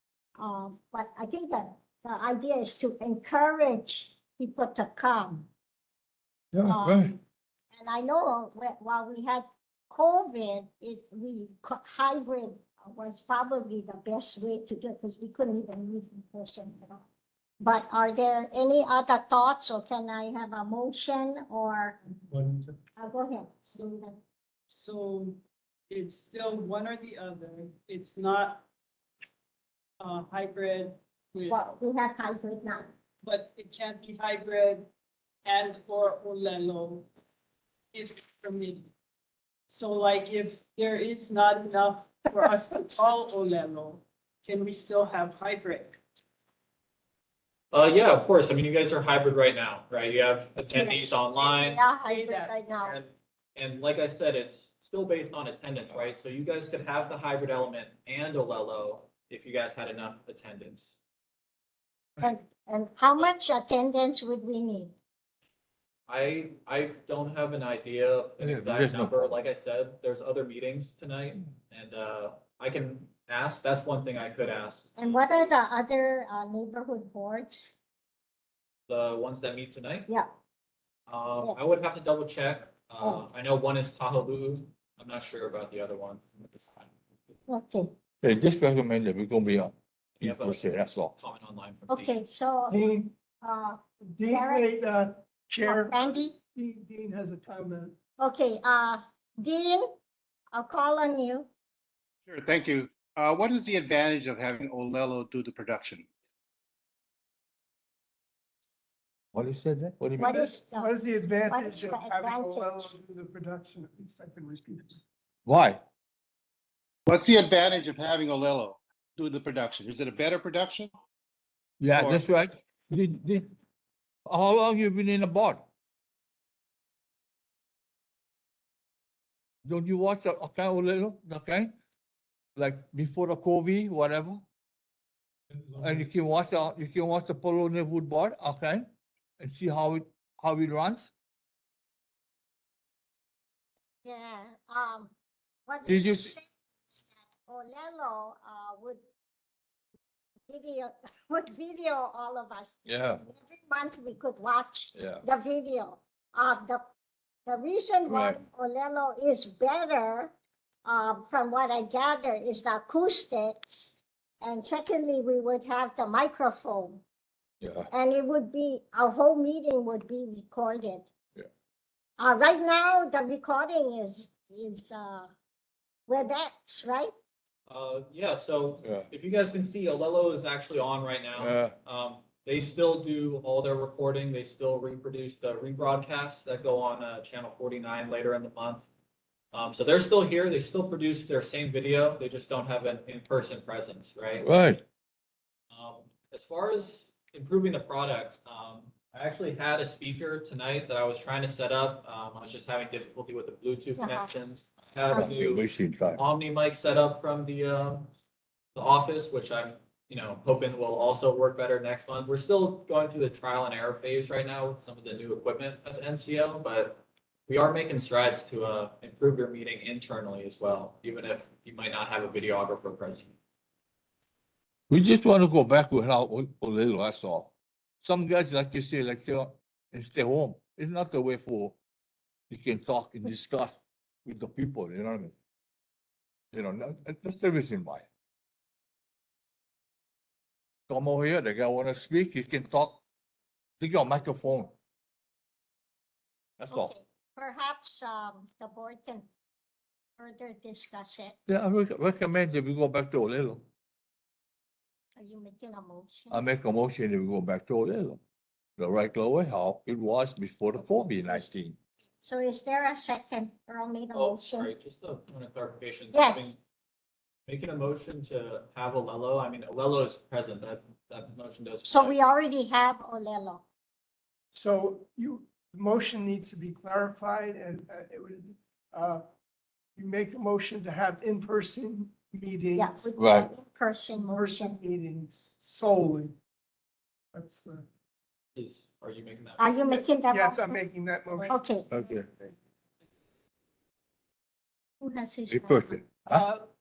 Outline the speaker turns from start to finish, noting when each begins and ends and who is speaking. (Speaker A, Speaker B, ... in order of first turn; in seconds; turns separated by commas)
Speaker A: 0.4-5.5, Speaker B: 6.5-7.1, Speaker A: 6.6-7.2, Speaker A: 7.7-17.0, Speaker A: 17.6-22.0, Speaker C: 22.3-22.7, Speaker A: 23.0-24.2, Speaker D: 24.7-28.6, Speaker D: 30.0-31.6, Speaker A: 31.5-32.9, Speaker D: 33.2-34.9, Speaker D: 35.4-37.1, Speaker D: 37.9-38.9, Speaker D: 39.7-46.0, Speaker E: 47.7-51.8, Speaker A: 50.7-53.0, Speaker D: 52.0-52.6, Speaker E: 52.8-60.9, Speaker A: 62.2-64.9, Speaker E: 66.1-75.2, Speaker B: 68.4-69.4, Speaker A: 75.0-77.7, Speaker E: 78.9-80.1, Speaker E: 81.1-86.9, Speaker A: 87.5-87.9, Speaker B: 88.2-91.1, Speaker E: 90.2-90.6, Speaker E: 91.1-92.1, Speaker A: 91.9-92.8, Speaker C: 92.7-93.1, Speaker A: 93.4-94.6, Speaker C: 94.1-97.9, Speaker A: 95.6-96.3, Speaker A: 98.2-99.9, Speaker A: 100.5-101.5, Speaker F: 102.3-106.0, Speaker B: 109.3-110.4, Speaker A: 110.2-110.9, Speaker C: 110.2-115.0, Speaker A: 111.5-112.9, Speaker B: 115.5-115.8, Speaker F: 117.1-120.9, Speaker B: 121.8-123.5, Speaker B: 124.2-125.6, Speaker B: 129.6-131.7, Speaker B: 132.6-134.4, Speaker B: 135.8-138.9, Speaker B: 139.4-141.1, Speaker A: 144.0-145.1, Speaker A: 145.7-149.0, Speaker B: 145.8-146.3, Speaker A: 150.5-156.8, Speaker B: 152.8-153.2, Speaker B: 154.9-155.2, Speaker A: 157.4-160.3, Speaker B: 158.1-158.4, Speaker A: 160.8-167.0, Speaker B: 167.6-167.9, Speaker A: 167.9-171.1, Speaker A: 172.2-175.3, Speaker A: 176.1-177.1, Speaker E: 177.7-188.9, Speaker B: 181.3-181.7, Speaker E: 189.5-194.5, Speaker B: 194.4-194.8, Speaker E: 195.7-208.1, Speaker A: 204.0-204.3, Speaker B: 205.1-206.2, Speaker E: 208.7-223.3, Speaker B: 224.9-231.8, Speaker B: 232.5-235.3, Speaker B: 236.5-238.1, Speaker B: 240.9-243.0, Speaker B: 243.8-244.7, Speaker B: 246.6-246.9, Speaker A: 246.7-249.2, Speaker A: 250.2-251.4, Speaker B: 251.5-253.6, Speaker A: 255.2-256.4, Speaker B: 256.3-258.2, Speaker B: 258.8-261.8, Speaker A: 262.2-264.7, Speaker E: 264.1-266.6, Speaker A: 266.1-266.5, Speaker E: 267.5-272.2, Speaker A: 271.9-273.6, Speaker C: 274.5-279.2, Speaker C: 280.0-283.0, Speaker A: 282.8-284.8, Speaker B: 283.2-283.5, Speaker C: 284.1-286.3, Speaker C: 287.3-287.8, Speaker E: 288.5-289.7, Speaker A: 289.6-290.7, Speaker C: 289.9-291.5, Speaker A: 291.5-291.9, Speaker B: 291.9-292.3, Speaker A: 295.0-295.9, Speaker B: 295.5-296.5, Speaker C: 296.3-296.6